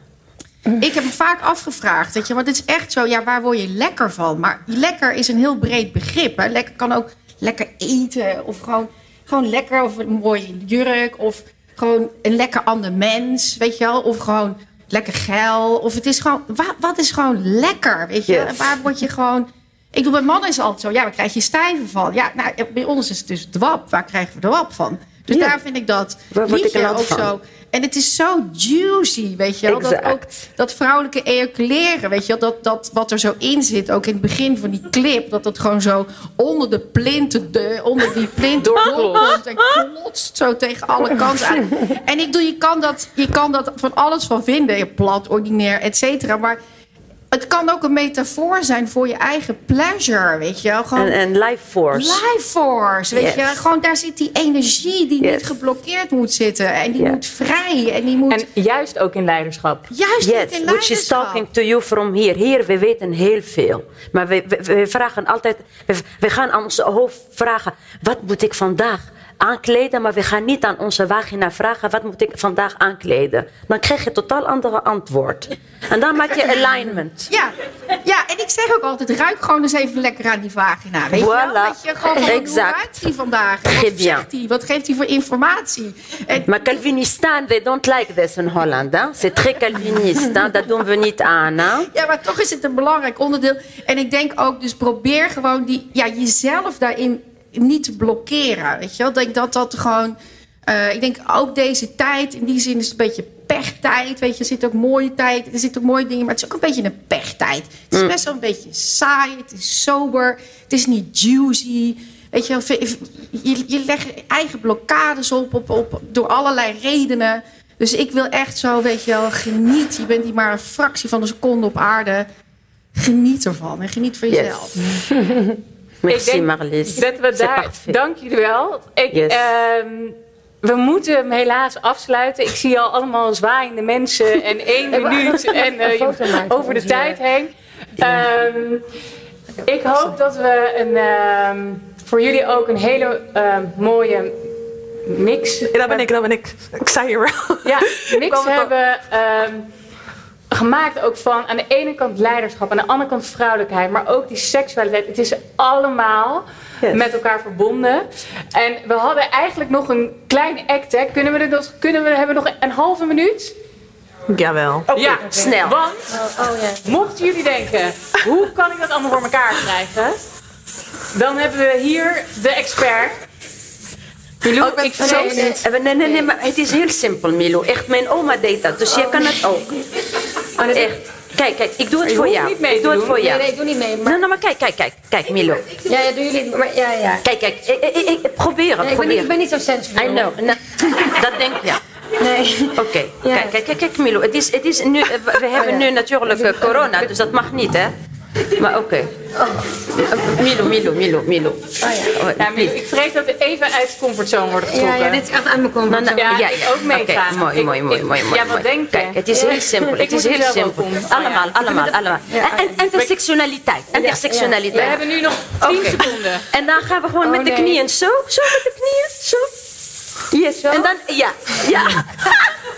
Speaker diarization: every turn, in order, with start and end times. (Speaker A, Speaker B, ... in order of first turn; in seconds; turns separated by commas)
Speaker A: 0.8-46.6, Speaker B: 18.3-18.7, Speaker B: 26.3-27.3, Speaker B: 29.7-30.2, Speaker C: 38.6-39.4, Speaker B: 39.1-39.8, Speaker A: 47.3-51.2, Speaker B: 51.0-52.2, Speaker A: 51.9-58.5, Speaker B: 53.1-53.6, Speaker B: 55.2-55.5, Speaker C: 58.3-59.9, Speaker A: 59.9-61.5, Speaker B: 60.2-77.3, Speaker A: 77.3-86.5, Speaker B: 81.1-83.0, Speaker B: 83.7-84.3, Speaker B: 86.5-91.9, Speaker A: 91.9-122.3, Speaker A: 122.9-124.8, Speaker B: 124.3-124.9, Speaker D: 125.2-125.5, Speaker B: 126.0-128.0, Speaker C: 126.1-138.8, Speaker B: 129.1-129.5, Speaker D: 134.9-137.2, Speaker C: 139.6-144.3, Speaker C: 145.1-146.1, Speaker E: 145.7-148.7, Speaker C: 147.6-149.7, Speaker C: 150.5-163.5, Speaker E: 164.3-165.2, Speaker C: 164.9-166.1, Speaker B: 165.2-165.8, Speaker D: 166.1-166.8, Speaker C: 166.8-170.2, Speaker C: 171.1-173.2, Speaker C: 174.4-175.5, Speaker B: 174.6-179.8, Speaker D: 175.0-176.3, Speaker D: 178.9-179.4, Speaker C: 180.6-180.9, Speaker B: 180.6-183.5, Speaker C: 182.0-183.2, Speaker D: 183.1-184.2, Speaker B: 184.0-185.7, Speaker D: 185.8-187.2, Speaker B: 187.2-189.3, Speaker D: 188.8-190.3, Speaker B: 189.9-191.8, Speaker D: 192.2-193.5, Speaker B: 192.7-197.9, Speaker D: 195.5-197.1, Speaker B: 198.5-199.1, Speaker D: 199.3-199.9, Speaker B: 199.9-202.8, Speaker D: 201.8-202.2, Speaker C: 202.4-205.2, Speaker D: 204.7-206.4, Speaker B: 205.9-219.6, Speaker C: 206.2-212.2, Speaker D: 209.3-209.9, Speaker D: 212.3-212.8, Speaker D: 213.9-215.3, Speaker C: 214.8-216.4, Speaker D: 217.2-217.8, Speaker B: 220.2-222.6, Speaker D: 220.6-220.9